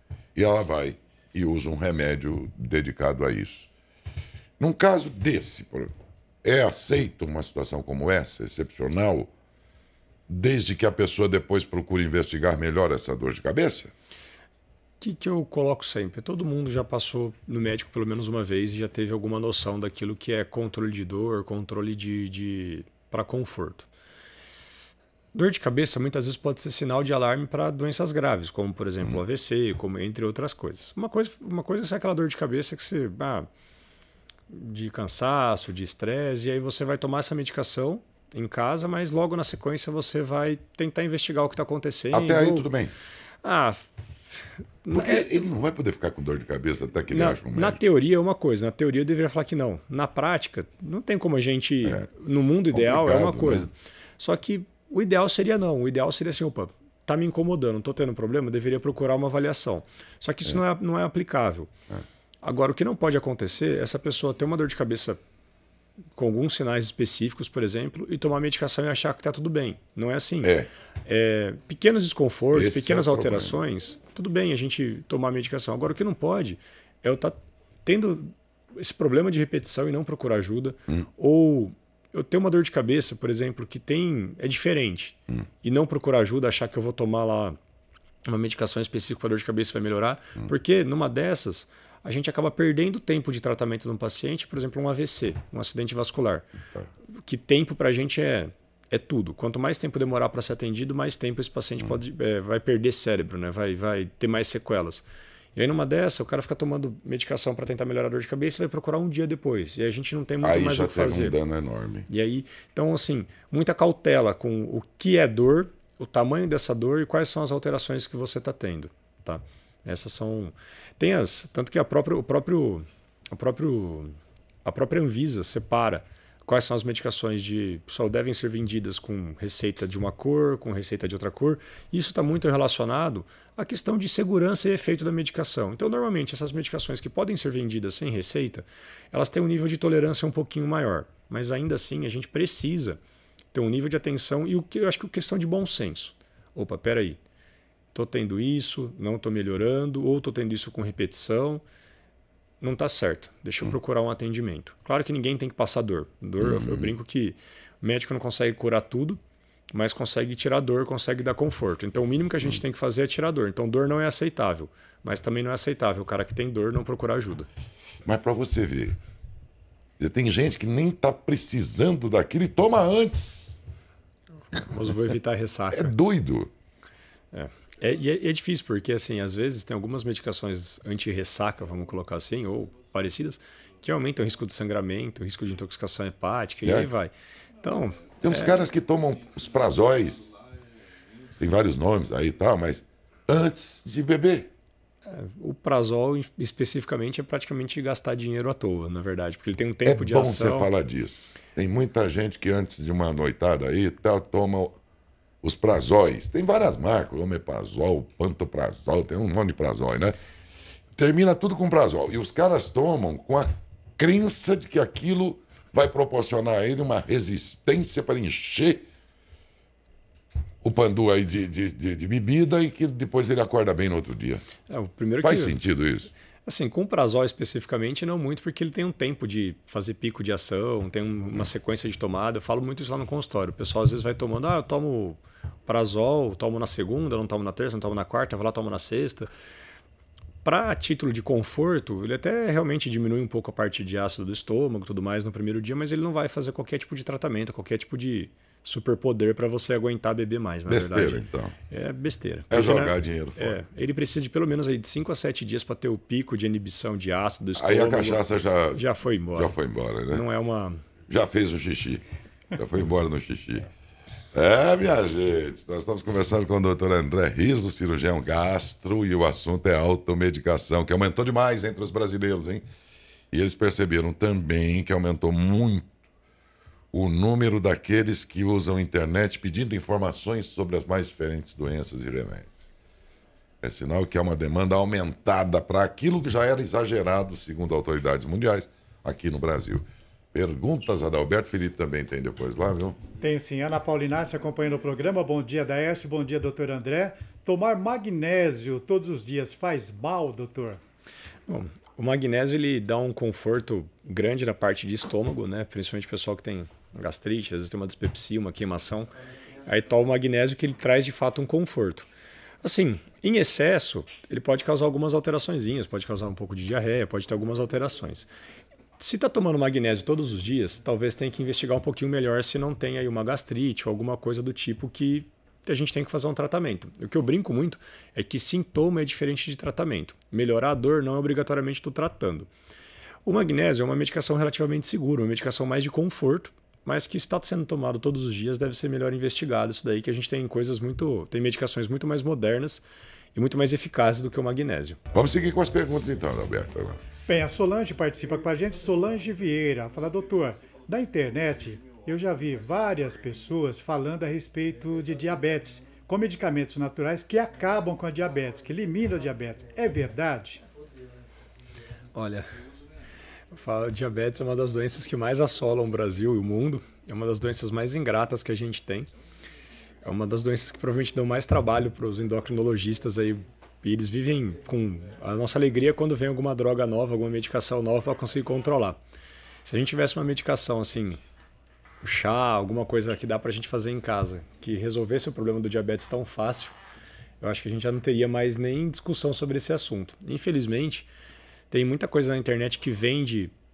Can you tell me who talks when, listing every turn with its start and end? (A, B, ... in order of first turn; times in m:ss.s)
0:00.4-0:03.7 A
0:04.6-0:09.3 A
0:10.3-0:13.9 A
0:15.0-0:23.9 B
0:25.3-0:33.5 B
0:34.5-0:42.7 B
0:42.1-0:42.9 A
0:43.4-0:45.3 B
0:44.9-0:47.8 A
0:47.1-1:01.7 B
0:52.7-0:53.7 A
1:02.4-1:05.2 B
1:06.2-1:10.5 B
1:11.1-1:27.6 B
1:12.5-1:13.6 A
1:28.3-1:36.5 B
1:37.2-1:51.4 B
1:50.4-1:52.1 A
1:52.1-2:23.0 B
2:23.5-2:27.2 B
2:27.9-2:31.6 B
2:32.6-2:39.2 B
2:36.4-2:36.9 A
2:39.7-2:47.5 B
2:48.1-2:49.0 A
2:50.0-2:53.6 A
2:54.5-2:56.0 B
2:55.7-2:56.5 A
2:57.3-3:07.1 B
3:06.6-3:06.9 A
3:07.6-3:08.6 B
3:08.2-3:10.3 A
3:11.4-3:14.5 A
3:15.1-3:20.7 B
3:19.8-3:24.8 A
3:25.4-3:30.2 A
3:31.0-3:38.9 A
3:40.6-3:44.4 A
3:44.7-3:45.6 B
3:45.2-3:46.1 A
3:46.5-3:59.3 B
4:00.4-4:19.6 B
4:10.7-4:11.6 A
4:12.5-4:13.6 A
4:17.6-4:18.8 A
4:19.4-4:20.2 A
4:20.1-4:20.8 B
4:21.1-4:23.7 A
4:24.3-4:32.6 A
4:33.3-4:35.9 A
4:36.9-4:42.5 A
4:43.6-4:53.0 A
4:53.2-5:00.8 C
5:01.5-5:09.1 B
5:09.6-5:12.1 B
5:12.6-5:18.3 B
5:19.0-5:32.5 B
5:33.2-5:45.0 B
5:45.1-5:47.0 A
5:47.3-6:00.6 C
6:02.1-6:02.5 B
6:03.5-6:09.1 B
6:10.0-6:19.0 B
6:19.6-6:21.2 B
6:22.0-6:26.8 B
6:27.4-6:31.1 B
6:31.7-6:33.5 B